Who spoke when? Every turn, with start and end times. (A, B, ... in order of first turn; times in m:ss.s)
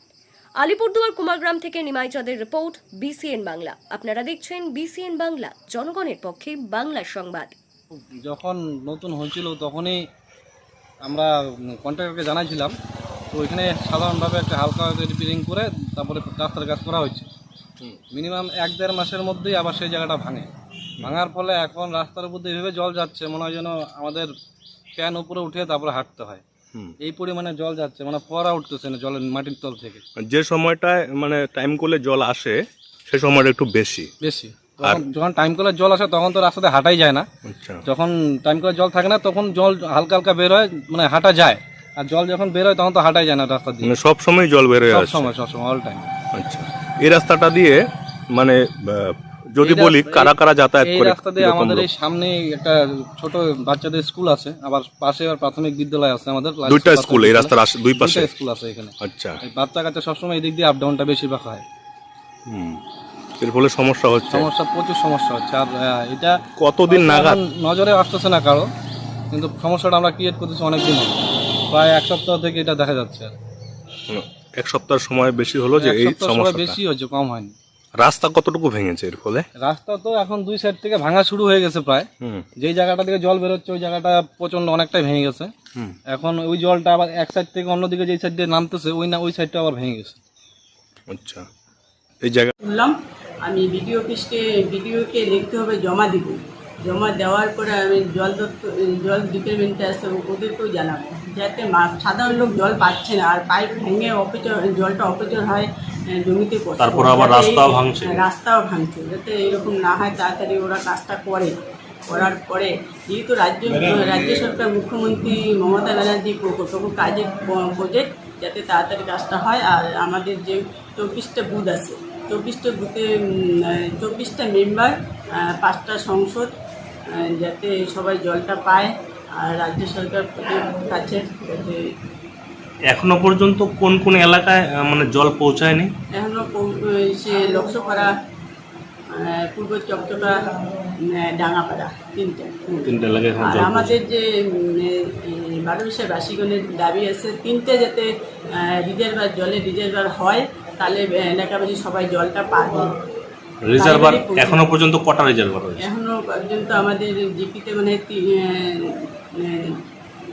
0:00.6-0:07.6 A
0:07.9-0:10.0 B
0:11.0-0:12.7 B
0:13.3-0:17.3 B
0:18.1-0:24.3 B
0:25.0-0:26.4 B
0:27.0-0:30.0 B
0:30.2-0:34.1 C
0:34.2-0:37.3 B
0:37.4-0:37.8 C
0:37.8-0:43.9 B
0:43.8-0:45.3 C
0:44.9-0:46.1 B
0:46.3-0:47.8 C
0:48.3-0:51.9 C
0:49.6-1:01.6 B
0:56.6-0:58.3 C
0:59.0-0:59.4 C
1:02.5-1:02.8 C
1:03.4-1:04.5 C
1:04.3-1:06.4 B
1:06.6-1:07.4 C
1:06.9-1:08.7 B
1:09.3-1:11.2 B
1:11.7-1:13.3 B
1:14.1-1:16.8 C
1:15.8-1:17.5 B
1:18.0-1:19.5 C
1:19.6-1:25.5 B
1:22.2-1:22.4 C
1:26.1-1:30.2 B
1:31.1-1:31.4 C
1:32.2-1:32.5 C
1:32.6-1:51.5 D
1:46.8-1:48.2 E
1:52.1-2:06.5 D
2:07.1-2:11.8 D
2:12.9-2:15.9 E
2:16.2-2:18.1 D
2:19.1-2:32.9 D
2:22.8-2:23.9 E
2:33.6-2:35.8 E
2:33.7-2:34.7 D
2:35.8-2:39.8 D